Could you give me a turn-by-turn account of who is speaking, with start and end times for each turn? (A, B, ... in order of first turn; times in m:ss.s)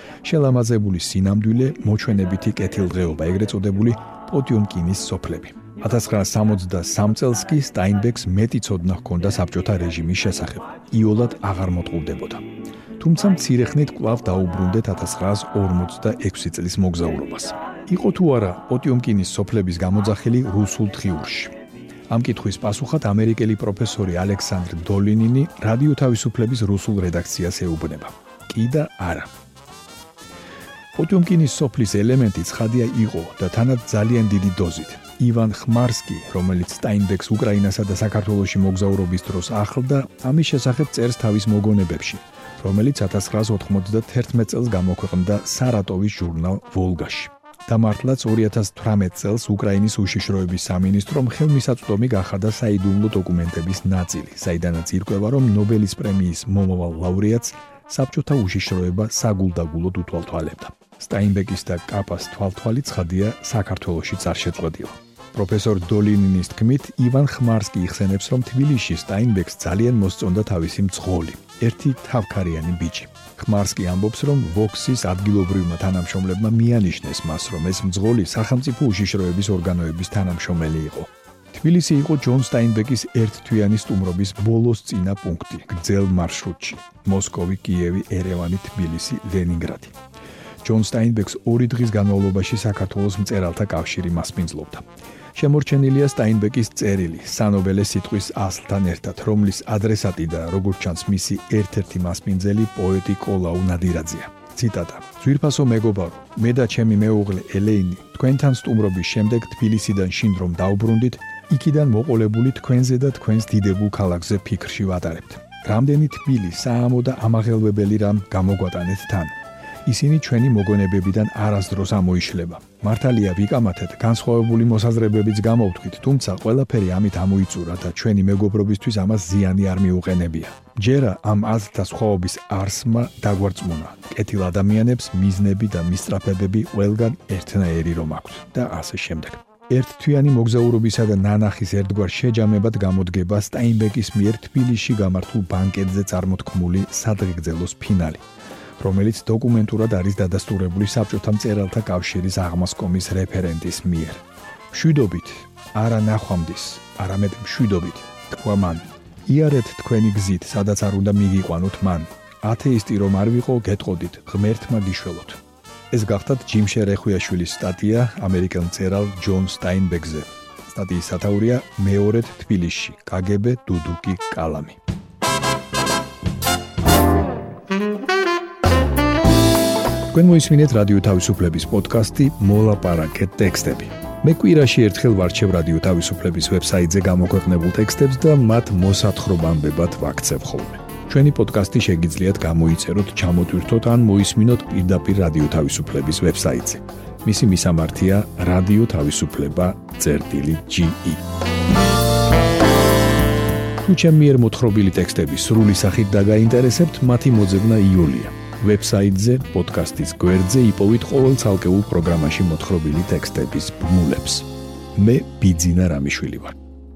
0:00.2-0:12.4 A
0:13.0-0:21.5 A
0:22.1-0:29.3 A
0:30.9-1:29.9 A
1:30.6-2:28.2 A
2:28.8-2:45.4 A
2:45.9-2:54.8 A
3:00.1-3:21.2 A
3:23.8-3:36.6 A